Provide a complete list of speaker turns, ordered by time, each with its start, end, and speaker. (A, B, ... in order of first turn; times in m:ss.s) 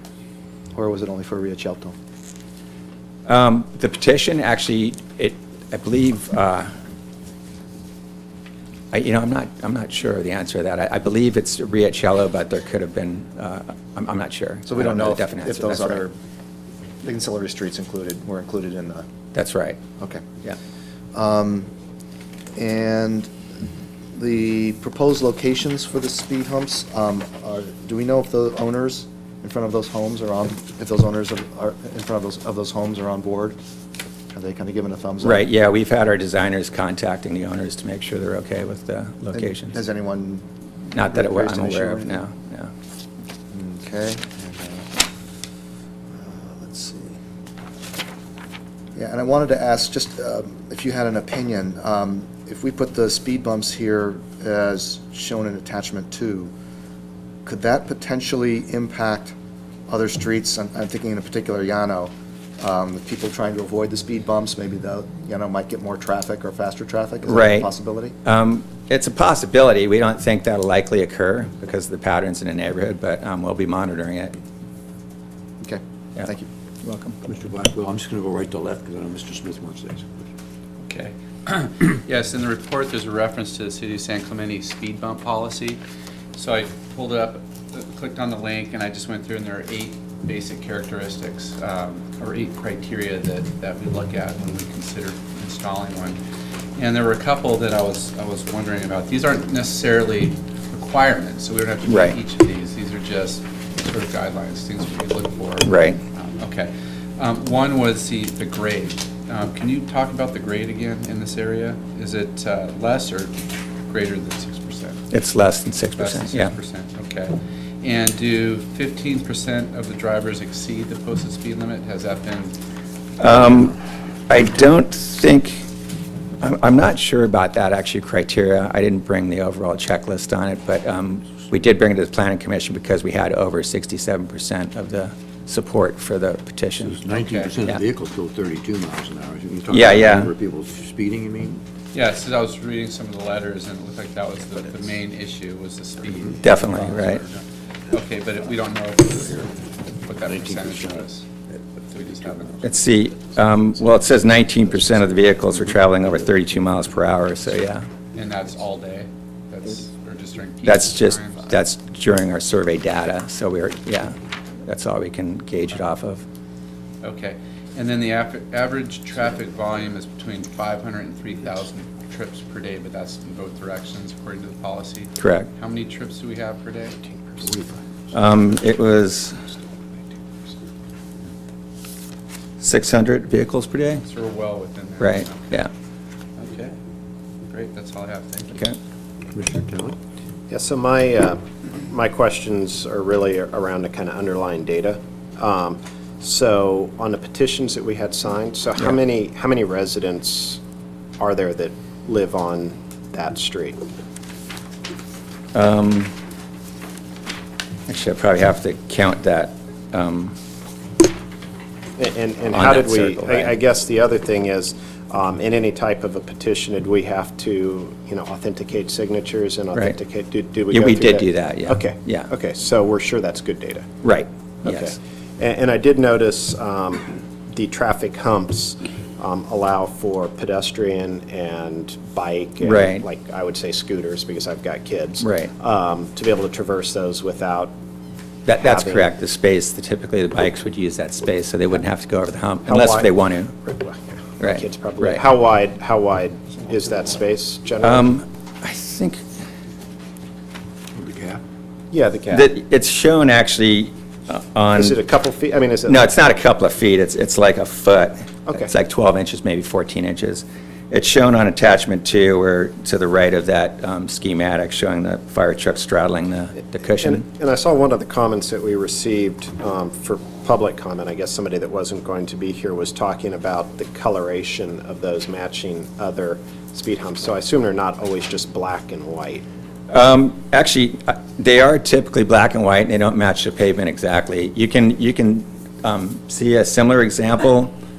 0:00.7-0:01.9 A
0:03.3-0:06.7 B
0:08.9-0:16.0 B
0:14.6-0:16.1 A
0:17.0-0:19.0 A
0:19.3-0:19.8 B
0:20.0-0:20.2 A
0:21.1-0:21.7 A
0:22.6-0:23.3 A
0:24.1-0:33.6 A
0:34.3-0:35.4 A
0:35.2-0:39.8 B
0:39.3-0:42.2 A
0:40.9-0:42.7 B
0:43.5-0:44.9 A
0:46.1-0:47.2 A
0:49.0-0:56.5 A
0:57.4-0:59.3 A
0:59.9-1:08.1 A
1:07.3-1:07.7 B
1:08.2-1:14.4 B
1:15.6-1:16.5 A
1:16.8-1:17.2 B
1:17.2-1:20.3 C
1:20.8-1:25.8 D
1:26.3-1:36.2 D
1:36.8-1:53.3 D
1:41.8-1:42.2 B
1:45.6-1:46.0 B
1:53.8-1:55.0 D
1:55.1-1:56.5 B
1:56.0-2:02.5 D
2:03.2-2:03.8 B
2:04.3-2:05.6 B
2:06.4-2:17.0 B
2:16.8-2:21.6 C
2:17.1-2:17.6 D
2:19.7-2:20.3 B
2:21.9-2:31.3 D
2:26.4-2:27.2 B
2:30.2-2:31.1 C
2:31.8-2:32.7 D
2:32.6-2:37.8 B
2:35.0-2:35.7 C
2:38.1-2:41.4 D
2:40.6-2:46.2 B
2:47.0-2:57.5 D
2:55.2-2:55.5 B
2:57.4-2:58.0 C
2:58.1-2:59.4 B
3:02.6-3:04.0 B
3:04.0-3:05.6 D
3:05.0-3:05.7 B
3:06.4-3:06.8 D
3:07.4-3:08.7 D
3:09.3-3:10.0 C
3:10.5-3:20.6 E
3:21.2-3:23.8 E
3:25.5-3:26.1 B
3:27.9-3:30.4 B
3:32.0-3:43.9 E
3:32.5-3:33.5 B
3:40.7-3:42.3 B
3:44.0-3:45.0 B
3:44.6-3:57.7 E
3:52.6-3:53.0 B
3:55.2-3:55.5 B
3:58.4-4:03.6 B
3:58.5-3:59.1 E
4:02.6-4:03.1 E
4:03.7-4:08.1 E
4:04.4-4:05.2 B
4:07.8-4:09.2 B
4:10.9-4:11.4 C
4:11.9-4:12.5 E
4:12.3-4:15.0 B
4:14.7-4:16.0 E
4:15.9-4:27.2 B
4:18.5-4:18.7 E
4:27.0-4:39.4 E
4:39.9-4:47.7 B